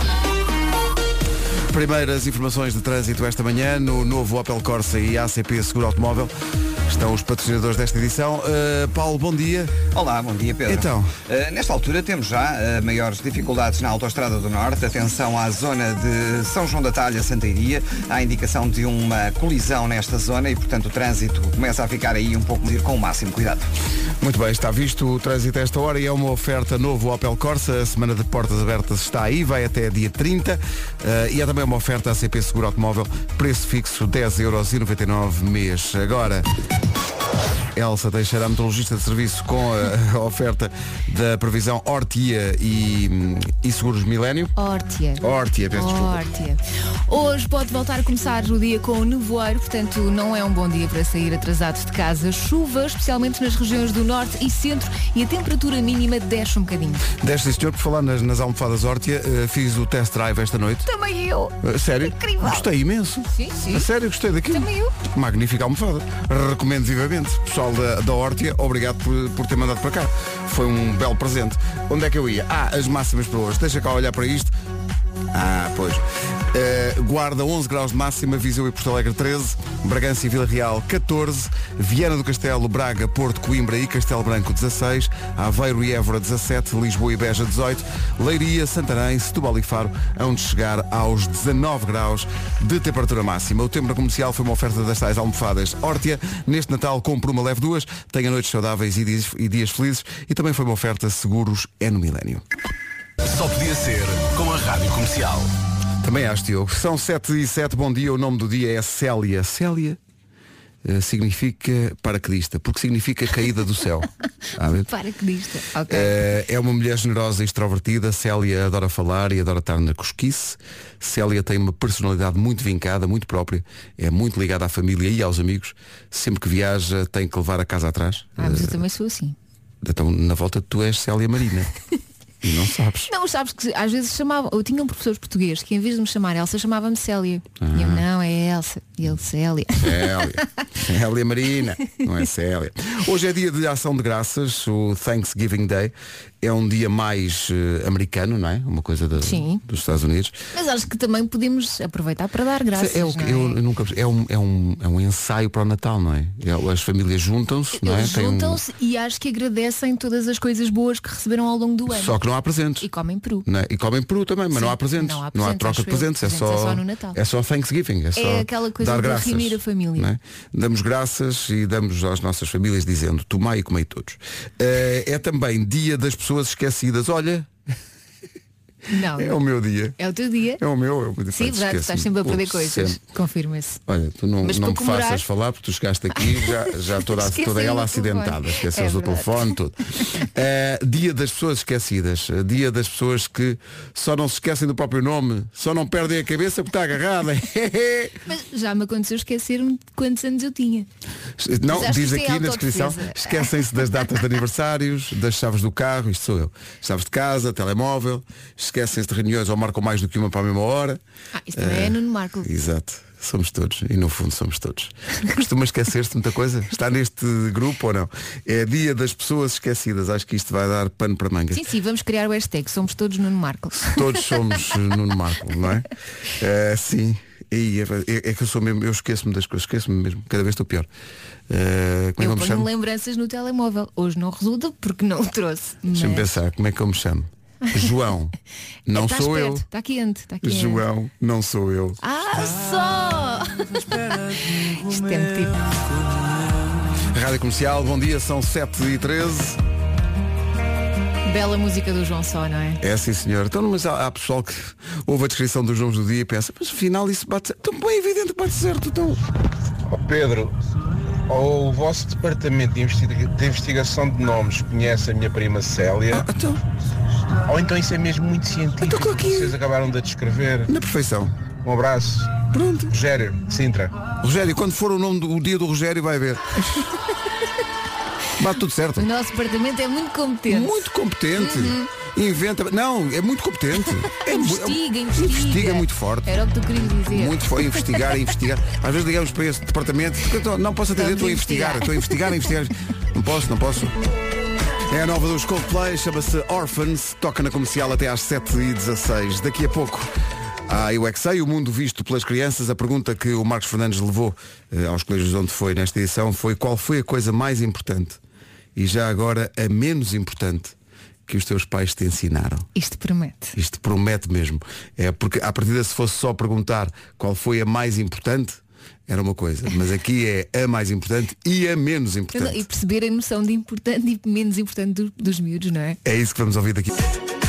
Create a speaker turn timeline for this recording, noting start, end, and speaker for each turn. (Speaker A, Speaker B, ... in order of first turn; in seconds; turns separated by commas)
Speaker A: 1.7-6.3, Speaker A: 6.9-9.8, Speaker B: 9.9-23.7, Speaker A: 10.7-11.1, Speaker A: 24.2-36.5, Speaker A: 37.7-44.5, Speaker C: 44.5-57.0, Speaker A: 45.2-46.2, Speaker A: 57.1-60.9, Speaker C: 60.9-62.7, Speaker A: 61.6-74.5, Speaker C: 63.3-63.9, Speaker C: 64.5-64.9, Speaker A: 75.3-102.4, Speaker D: 103.2-105.5, Speaker A: 106.0-110.0, Speaker A: 110.8-114.9, Speaker C: 114.8-116.2, Speaker A: 115.9-128.8, Speaker C: 128.4-129.3, Speaker A: 129.8-131.7, Speaker A: 132.4-133.1, Speaker C: 133.1-140.4, Speaker A: 137.6-138.0, Speaker A: 139.8-150.4, Speaker C: 149.2-149.6, Speaker C: 150.5-153.6, Speaker A: 152.7-158.6, Speaker C: 157.8-162.2, Speaker A: 161.9-162.9, Speaker C: 162.8-163.5, Speaker A: 163.4-177.5, Speaker C: 164.5-167.2, Speaker C: 168.1-170.1, Speaker C: 178.9-179.3, Speaker A: 179.1-179.9, Speaker C: 180.0-180.6, Speaker A: 180.6-183.0, Speaker C: 181.3-183.8, Speaker A: 183.9-198.2, Speaker C: 184.4-185.2, Speaker C: 186.9-189.5, Speaker C: 198.3-200.9, Speaker A: 201.4-211.0, Speaker C: 201.7-203.6, Speaker C: 211.3-212.5, Speaker A: 211.5-221.6, Speaker C: 221.5-224.0, Speaker A: 223.8-230.9, Speaker A: 231.5-232.7, Speaker C: 232.2-236.3, Speaker A: 235.9-238.3, Speaker A: 238.8-239.6, Speaker C: 238.9-240.8, Speaker A: 240.4-242.0, Speaker C: 242.0-245.6, Speaker A: 247.1-249.6, Speaker C: 251.2-252.8, Speaker A: 252.8-259.2, Speaker E: 259.9-260.5, Speaker E: 261.3-266.3, Speaker A: 266.1-266.6, Speaker E: 267.5-270.7, Speaker A: 268.8-269.5, Speaker A: 270.7-271.3, Speaker E: 271.6-273.9, Speaker A: 272.5-272.9, Speaker A: 274.2-276.9, Speaker A: 278.4-279.1, Speaker C: 279.0-281.9, Speaker A: 280.5-286.3, Speaker C: 284.2-288.0, Speaker A: 287.1-293.9, Speaker C: 290.9-292.1, Speaker A: 294.9-300.1, Speaker A: 300.7-308.2, Speaker A: 308.8-310.7, Speaker A: 311.3-312.6, Speaker C: 312.8-313.5, Speaker A: 313.5-322.6, Speaker C: 322.3-326.0, Speaker A: 326.0-326.9